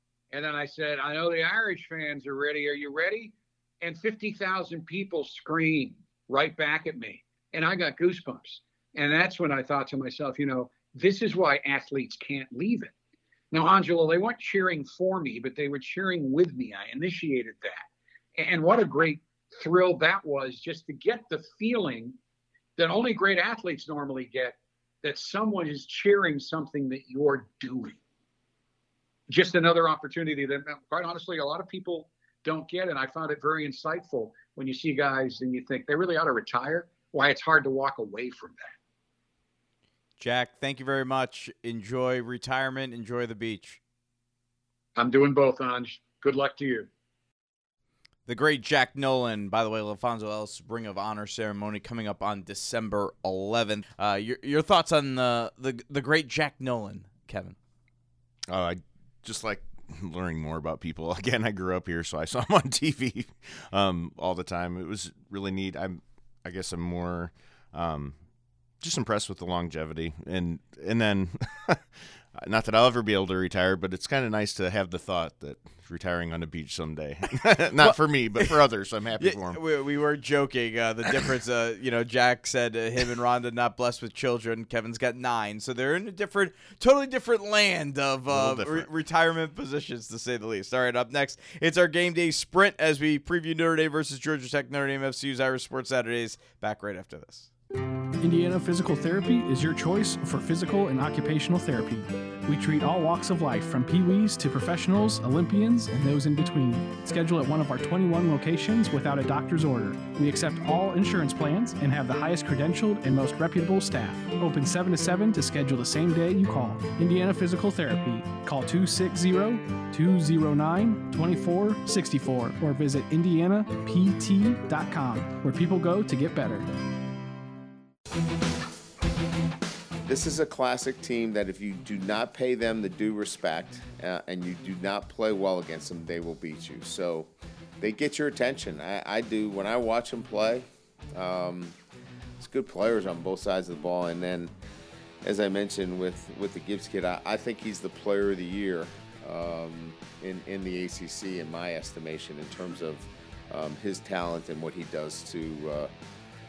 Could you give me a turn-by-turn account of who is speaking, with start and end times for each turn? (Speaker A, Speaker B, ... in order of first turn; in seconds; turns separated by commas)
Speaker A: 0.3-12.9, Speaker A: 13.5-22.2, Speaker A: 22.8-28.0, Speaker A: 29.3-38.8, Speaker B: 40.2-43.8, Speaker A: 45.0-46.9, Speaker B: 48.3-57.6, Speaker C: 58.5-68.2, Speaker C: 68.8-71.8, Speaker C: 72.4-79.6, Speaker B: 77.8-78.6, Speaker B: 79.2-97.5, Speaker C: 88.3-88.9, Speaker D: 98.2-126.7, Speaker E: 130.1-141.8, Speaker E: 142.4-144.5, Speaker E: 145.2-155.9